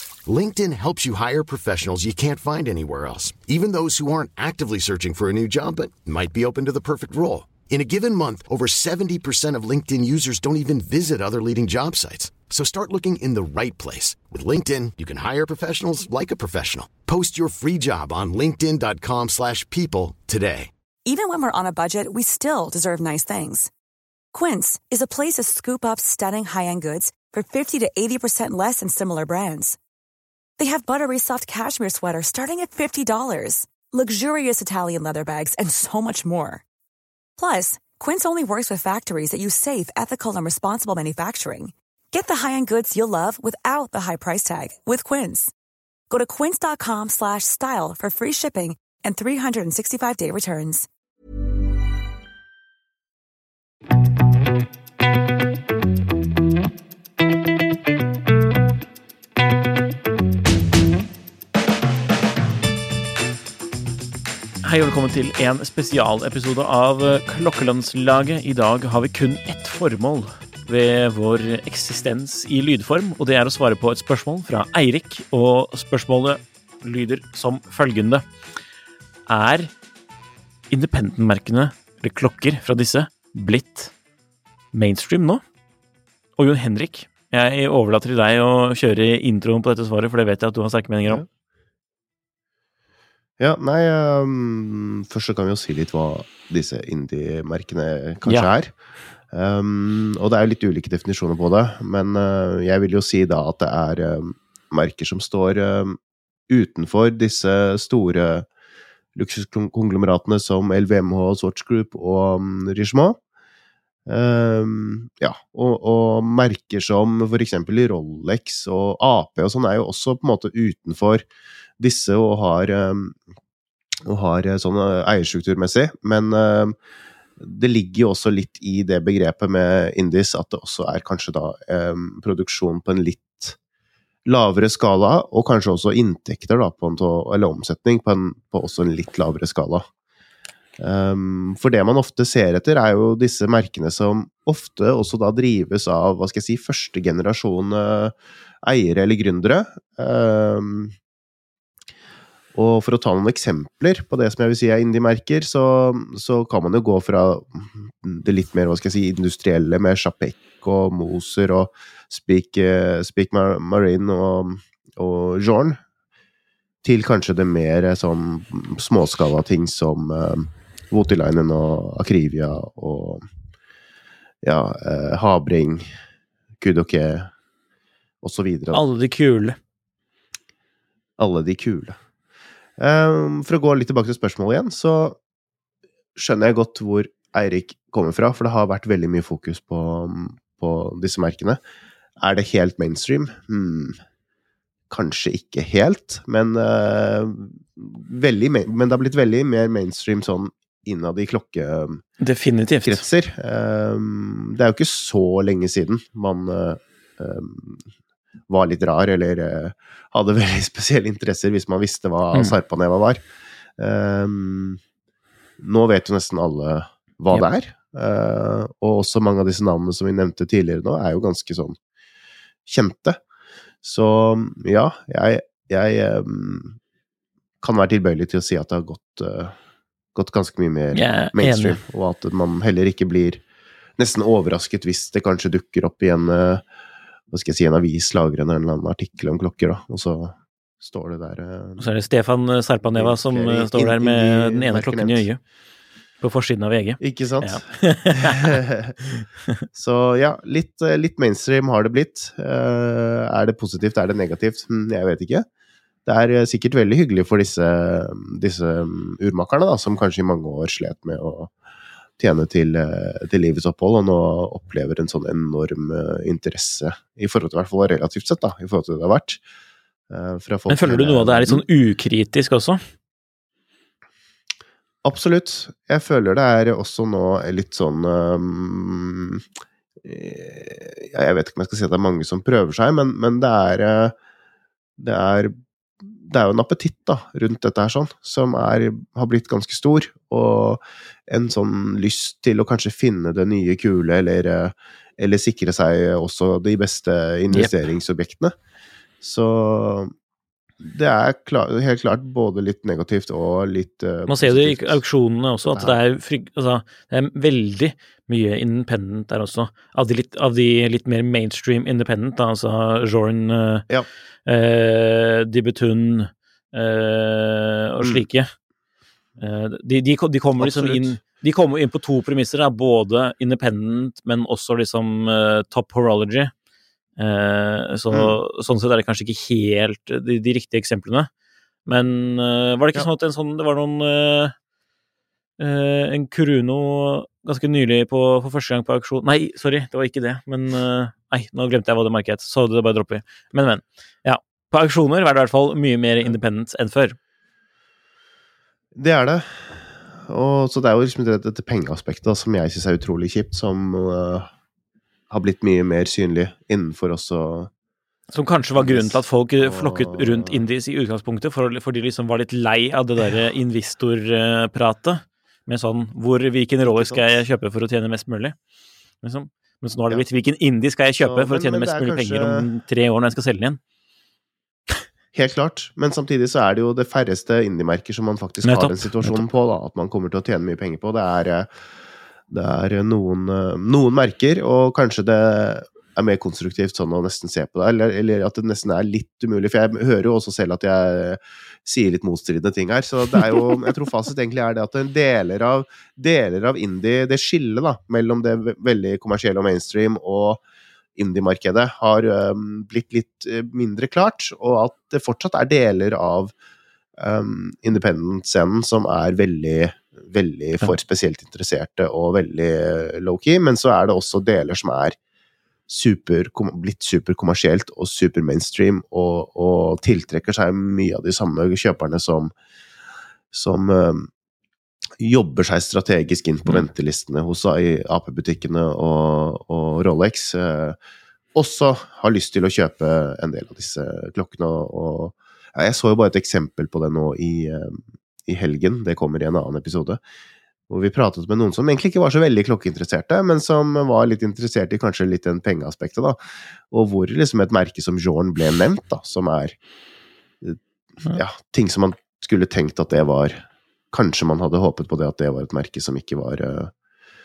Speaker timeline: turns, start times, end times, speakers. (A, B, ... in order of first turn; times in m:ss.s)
0:00.3-0:20.7 A
0:21.0-0:23.7 B
0:24.3-0:29.8 B
0:30.6-0:36.6 B
0:37.4-0:45.5 B
0:46.1-0:50.9 B
1:04.7-1:18.2 C
1:19.3-1:19.7 C
1:20.8-1:23.9 C
1:24.8-1:25.4 C
1:26.4-1:31.2 C
1:33.4-1:38.7 D
1:39.3-1:46.0 D
1:46.5-1:48.5 D
1:49.2-1:53.2 D
1:54.1-2:01.3 D
2:01.8-2:03.2 D
2:04.0-2:06.8 D
2:07.4-2:13.6 D
2:14.3-2:19.9 D
2:20.8-2:31.0 D
2:32.5-2:45.8 D
2:46.8-2:53.2 D
2:54.4-2:55.9 D
2:56.6-2:57.3 D
2:58.2-2:58.9 D
2:58.7-2:59.6 C
3:01.2-3:02.0 D
3:02.8-3:05.2 D
3:06.2-3:11.6 D
3:12.2-3:14.0 D
3:14.9-3:22.0 D
3:22.2-3:23.0 C
3:22.9-3:27.9 D
3:28.5-3:33.2 D
3:33.8-3:34.8 D
3:35.6-3:41.8 D
3:42.7-3:43.2 D
3:43.8-3:46.8 D
3:47.6-3:49.5 D
3:50.2-3:53.4 D
3:50.9-3:51.8 C
3:54.0-3:56.6 D
3:57.3-4:01.9 D
4:01.8-4:05.4 C
4:02.9-4:05.3 D
4:06.2-4:08.6 C
4:07.0-4:07.6 D
4:08.3-4:08.9 D
4:09.2-4:09.5 C
4:09.7-4:15.5 D
4:16.1-4:21.5 D
4:22.2-4:29.4 D
4:30.1-4:31.6 D
4:30.7-4:32.8 C
4:35.0-4:39.4 D
4:40.0-4:44.2 D
4:45.0-4:58.5 D
4:59.2-5:00.1 D
5:00.8-5:05.0 D
5:04.3-5:13.9 C
5:05.6-5:06.0 D
5:14.5-5:18.5 C
5:19.4-5:26.5 C
5:20.6-5:21.2 D
5:27.2-5:31.3 C
5:28.1-5:28.4 D
5:31.9-5:34.6 C
5:35.6-5:47.2 C
5:49.0-5:54.5 D
5:55.3-5:57.7 D
5:58.3-6:08.6 C
5:58.8-6:00.6 D
6:06.8-6:07.4 D
6:09.2-6:13.8 C
6:11.2-6:12.7 D
6:15.3-6:21.7 D
6:18.6-6:19.4 C
6:22.5-6:40.6 D
6:41.2-6:46.5 D
6:47.2-6:55.2 D
6:55.9-7:02.5 D
7:03.5-7:04.3 D
7:05.2-7:11.0 D
7:11.6-7:20.2 D
7:20.9-7:29.8 D
7:30.6-7:36.9 D